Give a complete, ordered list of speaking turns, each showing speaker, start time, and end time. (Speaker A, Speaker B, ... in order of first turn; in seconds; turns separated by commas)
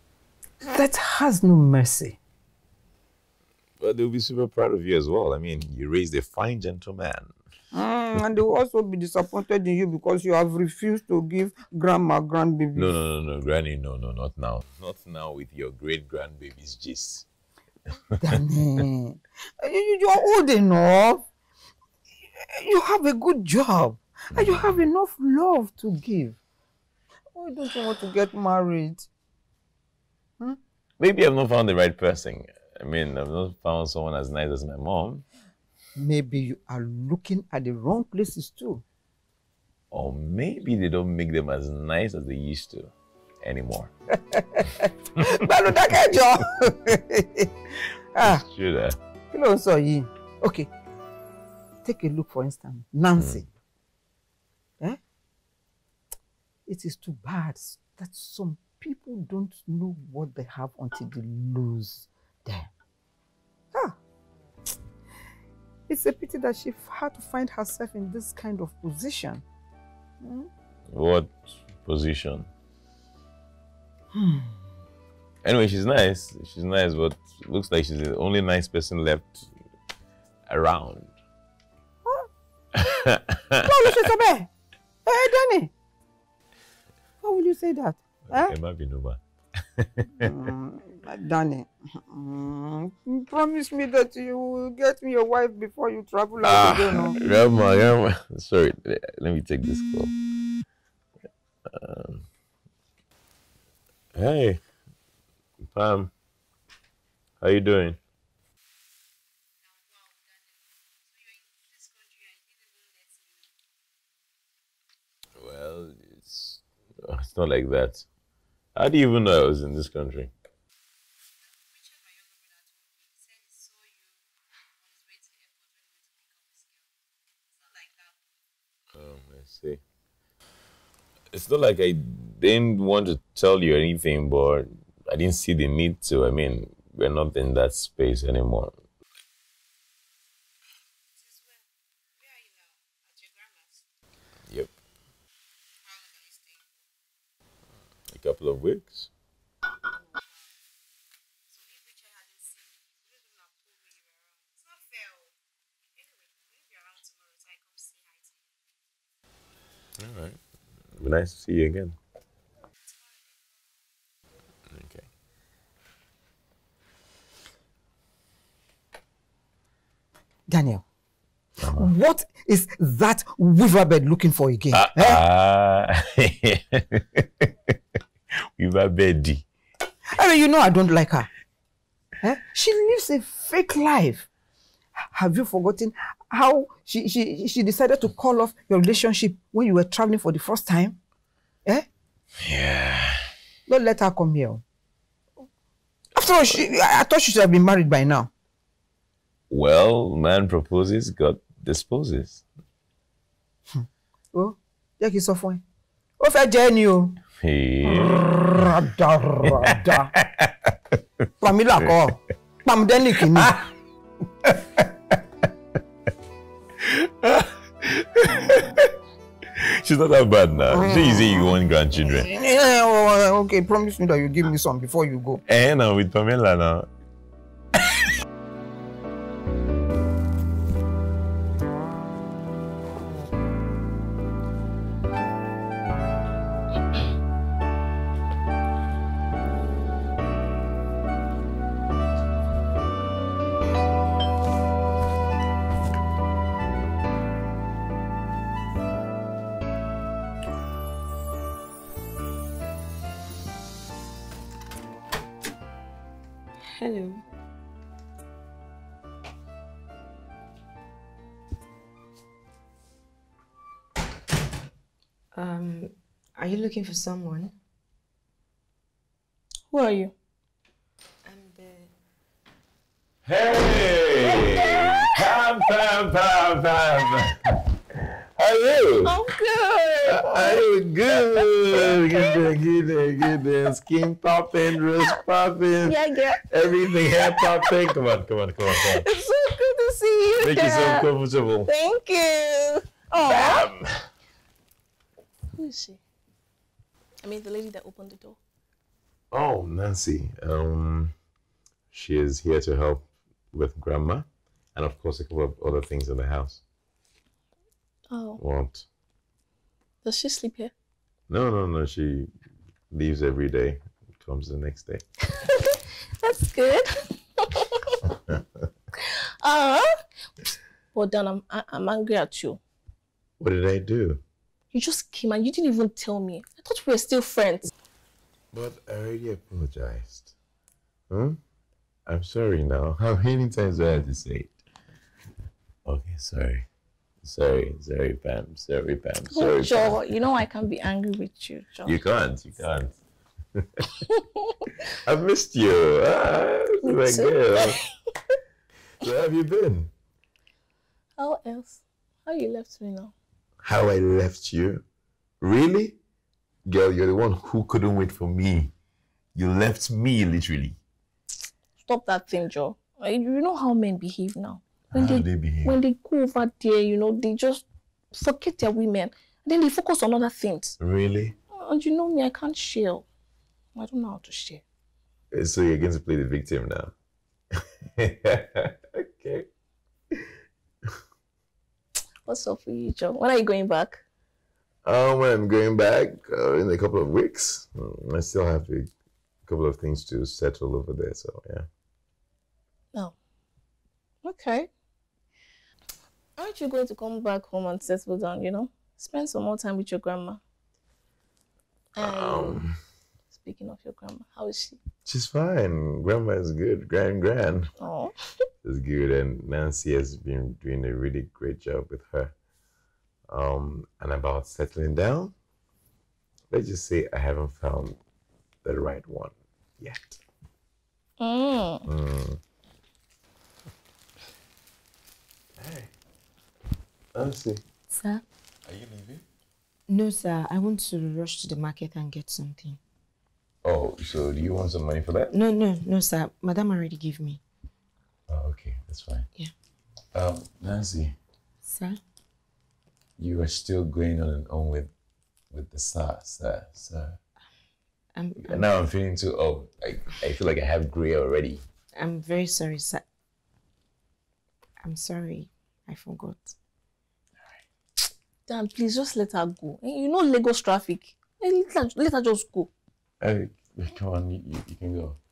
Speaker A: 0.6-2.2, Speaker B: 3.8-7.3, Speaker A: 7.7-12.9, Speaker B: 12.7-17.2, Speaker A: 18.2-21.3, Speaker A: 22.4-26.4, Speaker B: 24.3-24.8, Speaker A: 27.3-29.1, Speaker B: 31.0-35.2, Speaker A: 36.0-38.8, Speaker B: 39.9-43.9, Speaker A: 44.2-48.4, Speaker B: 48.2-49.0, Speaker A: 49.3-50.7, Speaker A: 51.8-53.5, Speaker A: 56.7-62.7, Speaker A: 63.7-64.0, Speaker A: 65.9-69.4, Speaker A: 70.2-70.5, Speaker B: 70.9-72.5, Speaker A: 74.1-74.6, Speaker B: 75.4-79.5, Speaker B: 80.5-81.1, Speaker B: 82.8-83.6, Speaker A: 83.6-84.5, Speaker A: 85.0-85.7, Speaker A: 87.2-88.5, Speaker B: 88.3-90.3, Speaker A: 90.2-97.2, Speaker B: 96.4-100.1, Speaker B: 101.7-102.2, Speaker B: 104.1-104.6, Speaker B: 105.7-106.1, Speaker B: 107.4-108.0, Speaker B: 115.4-118.0, Speaker B: 118.7-120.3, Speaker B: 128.9-129.8, Speaker B: 131.3-138.8, Speaker B: 148.1-149.1, Speaker B: 160.0-160.4, Speaker B: 160.9-162.0, Speaker B: 164.7-165.1, Speaker A: 170.5-170.8, Speaker B: 171.6-171.9, Speaker A: 171.7-175.2, Speaker B: 174.7-177.7, Speaker B: 178.6-179.4, Speaker A: 180.1-181.3, Speaker A: 182.2-184.3, Speaker A: 184.9-191.0, Speaker B: 192.4-193.3, Speaker A: 193.7-194.6, Speaker A: 196.1-198.3, Speaker B: 199.5-202.4, Speaker A: 203.7-205.6, Speaker A: 206.2-207.2, Speaker B: 207.4-208.8, Speaker A: 208.3-210.1, Speaker B: 209.4-210.6, Speaker A: 211.4-213.7, Speaker B: 216.8-218.9, Speaker B: 219.5-222.3, Speaker A: 220.7-221.5, Speaker A: 222.1-225.4, Speaker B: 225.4-226.9, Speaker C: 256.7-257.2, Speaker C: 265.3-267.6, Speaker D: 269.7-270.1, Speaker C: 271.2-271.9, Speaker B: 273.2-277.6, Speaker B: 278.4-279.2, Speaker D: 279.0-280.6, Speaker B: 280.1-289.1, Speaker D: 285.8-286.4, Speaker D: 287.2-287.5, Speaker D: 288.7-291.1, Speaker B: 290.4-291.7, Speaker D: 291.6-293.7, Speaker B: 293.2-294.0, Speaker D: 295.6-296.0, Speaker D: 297.2-298.4, Speaker B: 299.3-301.1, Speaker B: 301.9-306.6, Speaker D: 308.1-308.4, Speaker B: 308.4-308.9, Speaker D: 310.0-310.7, Speaker B: 311.3-312.3, Speaker B: 312.9-315.0, Speaker D: 315.4-316.9, Speaker D: 317.4-317.9, Speaker D: 319.4-320.0, Speaker D: 320.9-322.6, Speaker B: 323.4-324.2, Speaker D: 324.7-327.7, Speaker B: 328.5-330.3, Speaker B: 331.1-331.4, Speaker B: 332.1-334.5, Speaker B: 335.8-336.6, Speaker B: 337.2-340.0, Speaker D: 339.3-342.0, Speaker B: 341.9-342.9, Speaker B: 343.6-343.8, Speaker B: 344.9-347.8, Speaker D: 346.8-347.9, Speaker B: 349.0-349.9, Speaker D: 351.2-353.1, Speaker B: 353.6-354.8, Speaker B: 355.4-355.9, Speaker B: 356.6-358.7, Speaker B: 359.3-360.8, Speaker D: 361.8-370.8, Speaker B: 364.9-365.8, Speaker B: 370.8-371.4, Speaker D: 371.5-373.1, Speaker D: 373.7-374.6, Speaker B: 375.3-376.9, Speaker B: 378.0-379.4, Speaker D: 382.2-384.0, Speaker B: 384.8-388.9, Speaker B: 389.4-391.6, Speaker D: 394.2-394.7, Speaker D: 396.4-400.4, Speaker D: 402.0-402.6, Speaker B: 402.0-402.8, Speaker D: 403.3-404.8, Speaker B: 405.1-407.7, Speaker D: 407.8-408.1, Speaker B: 408.6-412.3, Speaker B: 413.3-415.3, Speaker B: 416.5-418.0, Speaker B: 418.6-420.2, Speaker D: 421.2-421.9, Speaker B: 421.9-422.4, Speaker B: 425.6-425.9, Speaker B: 427.1-427.6, Speaker C: 427.9-428.2, Speaker B: 428.6-429.2, Speaker C: 429.9-432.8, Speaker B: 433.6-435.3, Speaker C: 435.3-437.4, Speaker B: 438.3-439.3, Speaker B: 440.1-441.1, Speaker C: 441.6-442.0, Speaker B: 443.2-444.9, Speaker B: 445.5-447.2, Speaker C: 448.1-448.7, Speaker B: 448.5-451.6, Speaker C: 451.9-453.0, Speaker C: 454.8-456.6, Speaker D: 458.5-462.7, Speaker B: 463.2-465.2